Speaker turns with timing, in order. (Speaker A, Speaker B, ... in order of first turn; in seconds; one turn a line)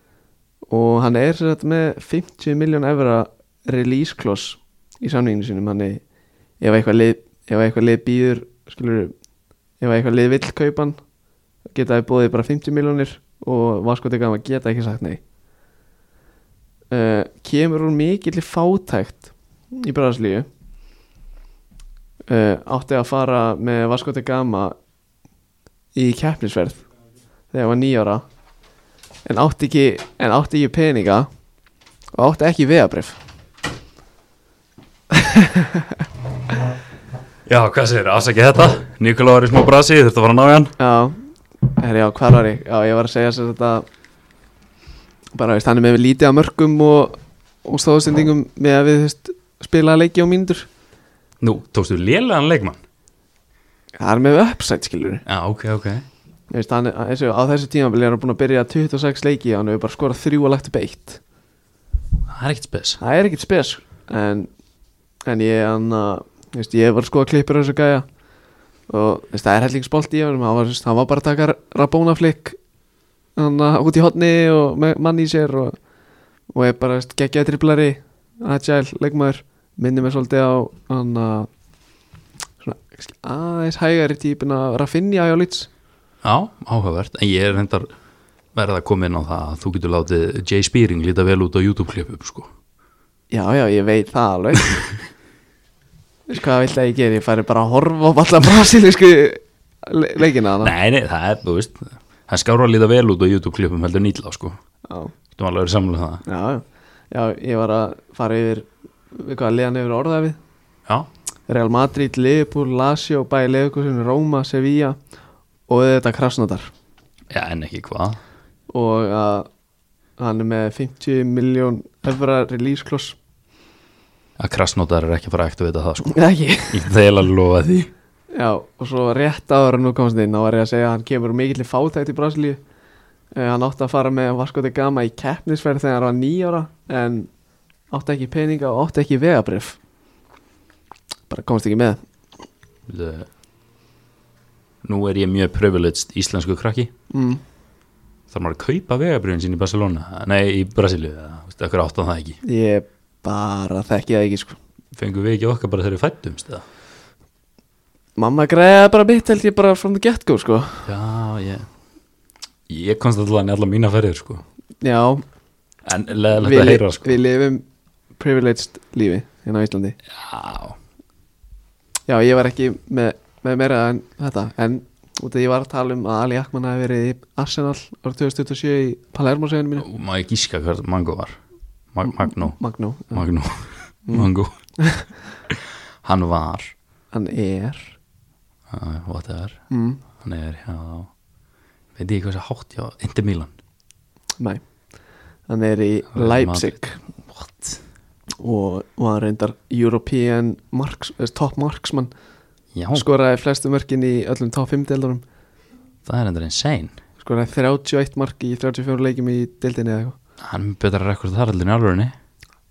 Speaker A: 0.7-6.0
Speaker A: 6.6-9.1
Speaker A: 9.8-11.0
Speaker A: 11.7-15.2
Speaker A: 16.9-20.4
Speaker A: 22.3-24.7
Speaker A: 25.9-26.8
Speaker A: 27.5-28.2
Speaker A: 29.2-31.3
Speaker A: 32.1-33.2
Speaker A: 35.1-35.9
Speaker B: 37.5-40.7
Speaker A: 40.8-43.9
Speaker A: 45.3-50.7
Speaker B: 51.4-52.8
Speaker A: 54.0-55.2
Speaker B: 55.2-56.0
Speaker A: 56.5-61.2
Speaker B: 62.3-63.0
Speaker A: 63.0-64.5
Speaker A: 65.2-68.0
Speaker A: 68.9-72.6
Speaker A: 73.4-75.8
Speaker A: 76.5-81.5
Speaker A: 82.6-85.7
Speaker B: 86.2-87.9
Speaker B: 88.5-92.5
Speaker A: 93.3-94.7
Speaker A: 96.3-100.7
Speaker B: 100.6-104.6
Speaker A: 104.9-105.1
Speaker B: 105.3-106.2
Speaker A: 106.2-110.4
Speaker A: 111.5-115.0
Speaker A: 115.7-116.7
Speaker B: 117.3-118.2
Speaker A: 118.7-119.5
Speaker A: 120.2-123.2
Speaker B: 124.4-126.2
Speaker A: 126.0-126.8
Speaker B: 126.7-127.9
Speaker A: 128.3-132.6
Speaker A: 133.3-137.3
Speaker A: 137.9-139.8
Speaker A: 141.3-142.0
Speaker B: 142.9-143.3
Speaker B: 144.8-146.9
Speaker A: 147.1-147.4
Speaker B: 148.3-152.4
Speaker A: 152.4-154.6
Speaker B: 154.9-156.6
Speaker A: 158.2-160.9
Speaker B: 160.8-161.7
Speaker B: 162.7-164.4
Speaker A: 164.8-165.2
Speaker B: 165.8-167.1
Speaker A: 166.4-167.6
Speaker A: 168.2-170.0
Speaker B: 170.1-170.8
Speaker A: 172.1-179.9
Speaker B: 179.8-181.4
Speaker B: 181.9-182.6
Speaker A: 182.4-183.2
Speaker B: 183.1-184.5
Speaker A: 184.1-185.1
Speaker B: 185.5-186.7
Speaker A: 187.1-187.9
Speaker B: 188.7-189.6
Speaker A: 189.7-190.0
Speaker B: 190.2-191.1
Speaker B: 191.9-193.5
Speaker A: 195.5-197.0
Speaker B: 196.1-197.8
Speaker A: 198.4-202.1
Speaker B: 202.7-203.1
Speaker A: 202.9-205.2
Speaker B: 206.0-206.9
Speaker A: 207.2-210.1
Speaker B: 210.4-212.1